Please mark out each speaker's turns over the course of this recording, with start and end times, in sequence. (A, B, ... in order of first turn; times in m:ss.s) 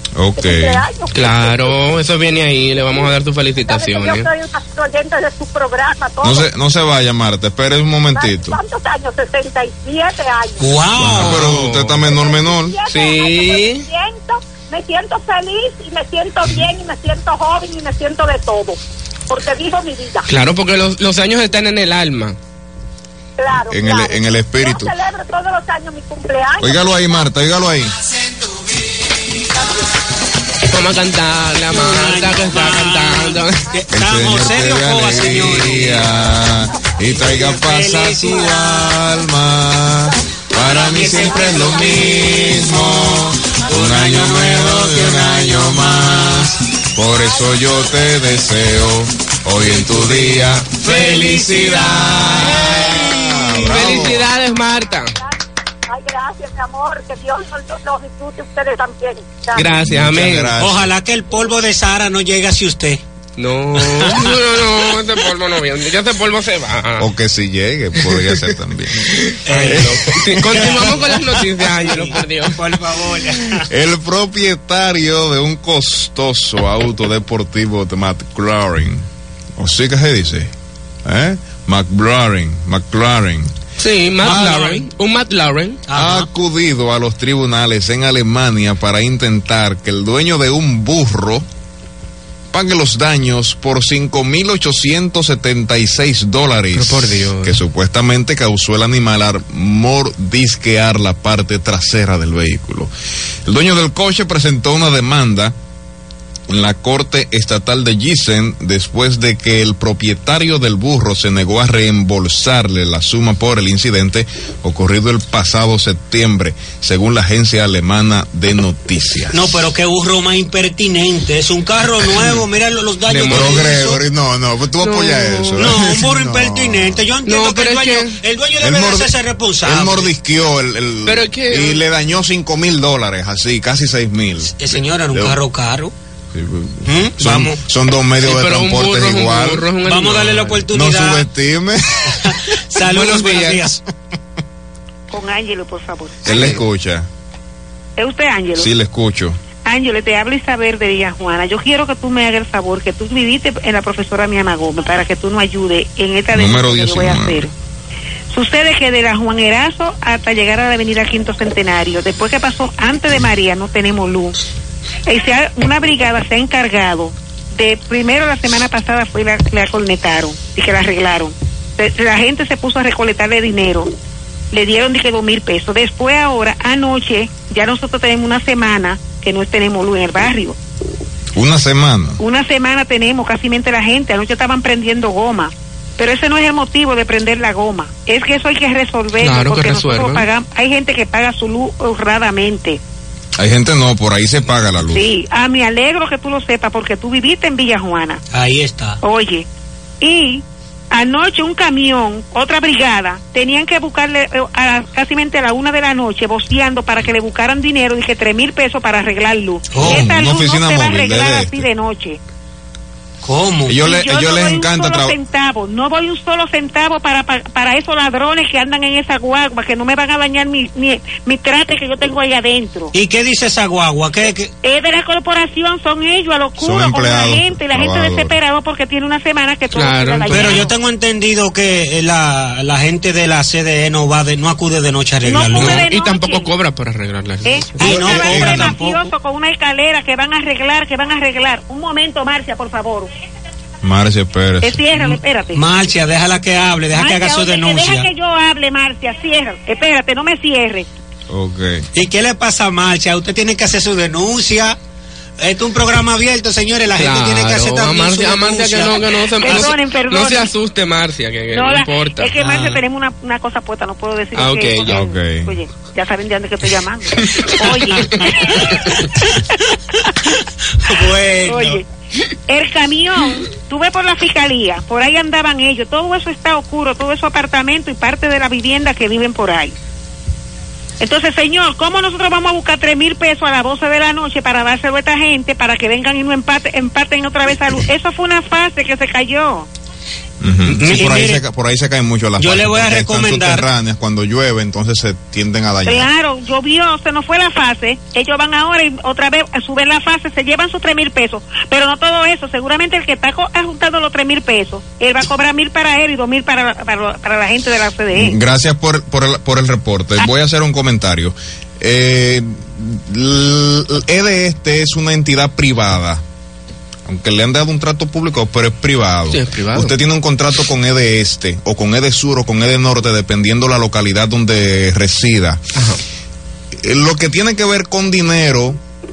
0:00.2-0:00.8 A
0:00.4-0:01.8 B
0:01.1-0:04.3 C
0:03.7-0:06.5 B
0:06.2-0:08.6 A
0:08.1-0:10.9 B
0:10.6-0:11.4 D
0:11.0-0:12.8 A
0:11.1-0:12.0 C
0:12.0-0:18.8 B
0:12.9-0:13.9 C
0:19.3-0:20.3 B
0:20.3-0:22.4 C
0:23.4-0:27.0 B
0:23.7-0:24.9 A
0:26.6-0:27.9 A
0:30.7-0:33.6 C
0:31.7-0:36.1 D
0:33.9-0:54.3 A
0:37.1-0:38.9 D
0:40.5-0:42.8 D
0:43.6-0:46.5 D
0:49.7-0:50.6 C
0:50.8-0:53.6 D
0:52.3-0:55.1 C
0:55.9-0:59.8 B
0:59.5-1:00.5 C
0:59.8-1:00.9 A
1:00.6-1:03.0 D
1:03.4-1:07.1 C
1:03.9-1:04.3 D
1:07.0-1:11.4 A
1:09.2-1:12.6 C
1:09.4-1:11.2 D
1:11.8-1:13.7 D
1:13.7-1:19.0 A
1:19.6-1:20.5 A
1:21.0-1:23.5 A
1:23.8-1:25.8 C
1:24.2-1:24.8 D
1:25.9-1:26.3 D
1:25.9-1:31.4 A
1:32.5-1:42.9 A
1:36.7-1:37.6 C
1:43.4-1:45.5 A
1:46.5-1:59.5 A
1:59.3-2:04.0 D
2:03.1-2:03.9 C
2:03.1-2:07.0 A
2:04.8-2:05.9 C
2:05.6-2:10.1 D
2:07.2-2:08.2 C
2:08.6-2:15.4 A
2:11.0-2:11.8 C
2:14.5-2:15.9 D
2:16.3-2:19.7 A
2:16.8-2:17.6 D
2:18.2-2:20.6 C
2:19.8-2:21.2 D
2:20.7-2:22.5 A
2:22.1-2:23.8 D
2:22.9-2:23.6 C
2:25.1-2:26.5 E
2:26.2-2:27.1 A
2:26.3-2:26.6 D
2:28.0-2:28.7 E
2:28.6-2:29.4 A
2:29.6-2:37.5 E
2:36.3-2:37.4 A
2:38.3-2:44.4 E
2:45.0-2:53.9 E
2:54.5-3:00.6 E
3:01.3-3:02.2 A
3:02.2-3:12.8 E
3:09.2-3:10.2 C
3:13.4-3:15.0 A
3:14.9-3:18.2 E
3:18.3-3:19.0 D
3:19.0-3:19.4 E
3:20.0-3:32.2 E
3:29.7-3:30.1 D
3:29.8-3:31.6 A
3:33.2-3:33.8 D
3:33.7-3:35.1 A
3:33.8-3:42.9 E
3:42.9-3:44.5 D
3:44.6-3:50.7 E
3:46.6-3:48.4 A
3:49.7-3:50.7 C
3:50.3-3:55.8 D
3:55.2-3:56.5 E
3:55.5-3:57.7 C
3:57.5-4:03.1 E
3:57.8-3:59.1 D
3:57.8-3:58.8 A
4:03.8-4:04.8 A
4:04.6-4:05.6 E
4:04.9-4:08.1 D
4:06.9-4:10.9 E
4:11.3-4:11.8 A
4:11.9-4:14.8 D
4:15.4-4:19.6 D
4:17.0-4:22.3 C
4:19.0-4:20.5 E
4:21.5-4:30.1 E
4:22.4-4:22.8 D
4:24.3-4:25.0 C
4:24.8-4:25.5 A
4:27.4-4:28.1 C
4:28.2-4:28.9 D
4:30.8-4:31.8 D
4:31.5-4:31.8 E
4:32.5-4:39.7 E
4:41.0-4:49.7 E
4:50.4-4:56.1 A
4:50.8-4:51.4 D
4:52.4-4:53.6 D
4:55.8-5:08.4 E
5:08.1-5:16.2 A
5:17.1-5:25.6 A
5:19.3-5:19.9 C
5:26.8-5:28.8 A